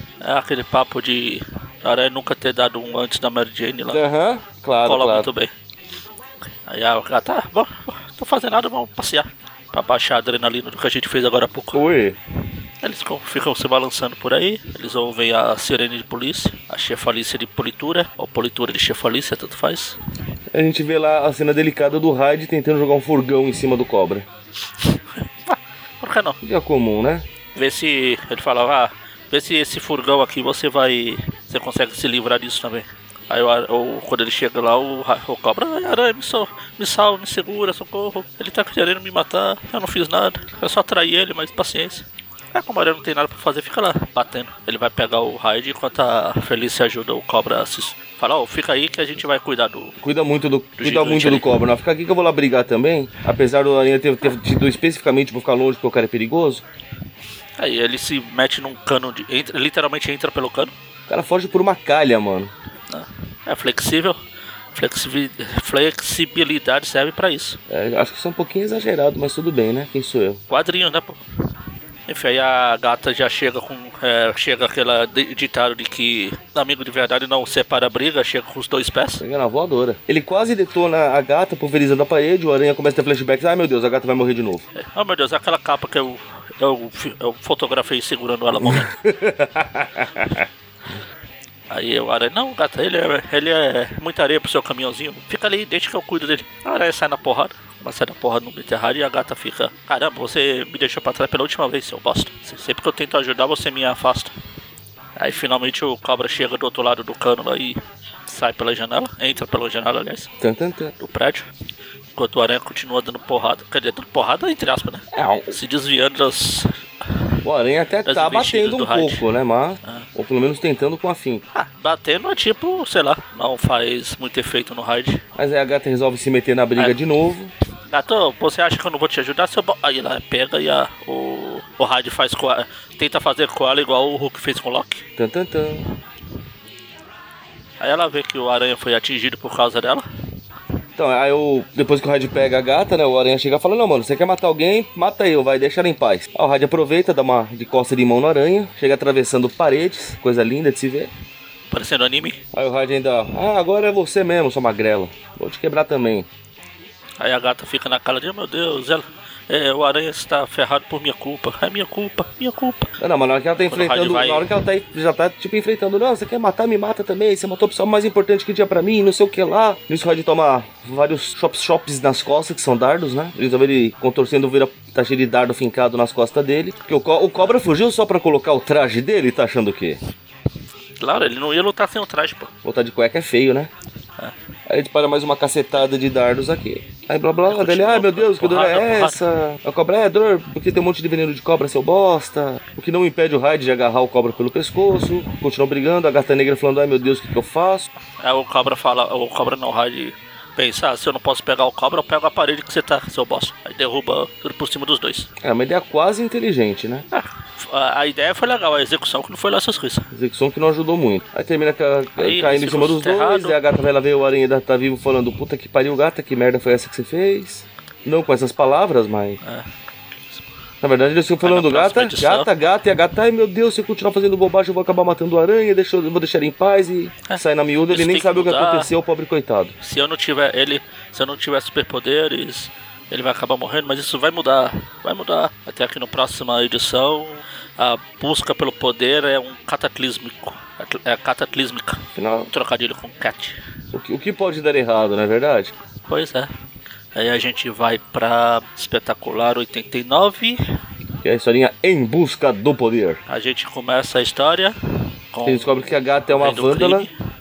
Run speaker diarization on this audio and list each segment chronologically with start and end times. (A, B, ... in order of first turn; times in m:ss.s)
0:00.2-0:04.0 A
0:03.9-0:05.3 B
0:04.8-0:05.5 A
0:06.7-0:11.8 A
0:11.7-0:12.2 B
0:12.8-0:20.0 A
0:20.5-0:24.2 B
0:24.8-0:26.4 A
0:26.4-0:27.2 B
0:27.6-0:49.9 A
0:50.0-0:56.6 B
0:50.8-0:51.5 A
0:57.6-1:00.7 A
1:01.1-1:02.5 B
1:02.9-1:04.2 A
1:04.7-1:07.6 A
1:07.7-1:10.4 B
1:10.5-1:11.2 A
1:12.1-1:19.2 A
1:19.2-1:24.6 B
1:24.8-1:28.9 A
1:28.6-1:30.4 B
1:31.7-1:44.3 A
1:45.2-1:50.3 A
1:50.4-1:51.0 B
1:51.0-1:51.4 A
1:52.1-1:57.2 A
1:55.1-1:55.6 B
1:57.4-2:01.4 B
1:58.0-1:59.2 A
2:01.5-2:05.2 A
2:05.4-2:07.5 B
2:07.9-2:15.0 A
2:15.2-2:15.9 B
2:17.8-2:20.0 A
2:21.0-2:31.1 B
2:31.7-2:32.4 A
2:32.5-2:36.3 B
2:37.2-2:42.9 A
2:43.0-3:00.0 B
2:43.6-2:44.5 A
3:01.0-3:02.5 A
3:02.6-3:03.7 B
3:04.7-3:17.9 B
3:07.5-3:09.2 A
3:18.2-3:25.3 A
3:25.4-3:27.0 B
3:27.1-3:30.1 A
3:30.1-3:39.4 B
3:32.2-3:33.6 A
3:39.4-3:40.5 A
3:40.8-3:49.7 B
3:41.4-3:42.5 A
3:47.3-3:48.9 A
3:49.8-4:03.6 A
4:02.1-4:02.5 B
4:03.9-4:05.7 B
4:06.1-4:06.5 A
4:07.1-4:10.6 A
4:11.2-4:13.2 B
4:13.3-4:14.7 A
4:15.3-4:17.1 A
4:15.4-4:17.1 B